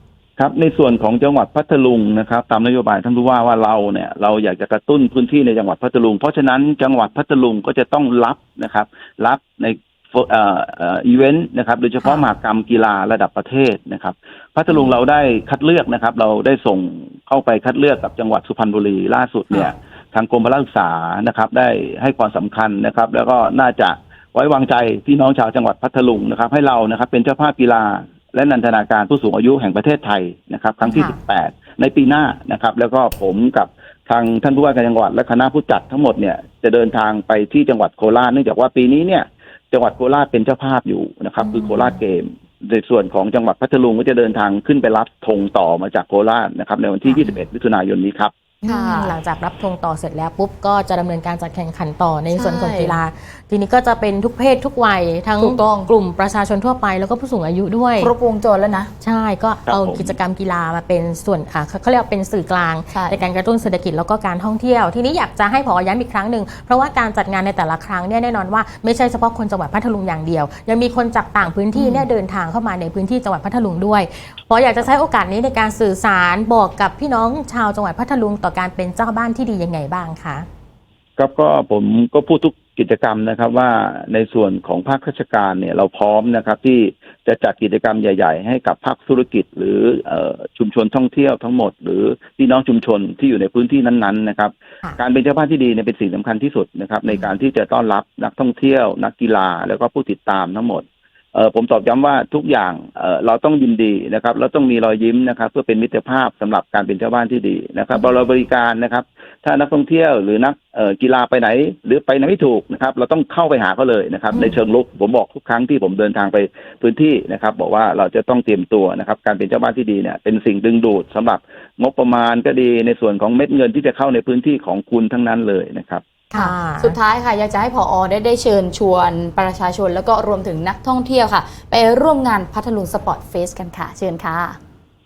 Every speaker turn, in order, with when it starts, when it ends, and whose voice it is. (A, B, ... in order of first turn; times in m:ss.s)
0:00.4-0:48.3 A
0:12.0-0:12.3 B
0:30.8-0:31.2 B
0:41.4-0:42.0 B
0:47.0-0:47.3 B
0:48.6-0:49.2 C
0:48.6-0:58.1 B
0:52.3-0:53.0 C
0:55.4-0:55.9 C
0:58.0-0:58.9 C
0:59.0-1:20.5 B
0:59.7-1:00.2 A
1:02.9-1:03.2 C
1:11.7-1:12.1 C
1:21.2-2:06.0 A
2:06.3-2:07.0 B
2:06.3-2:14.6 C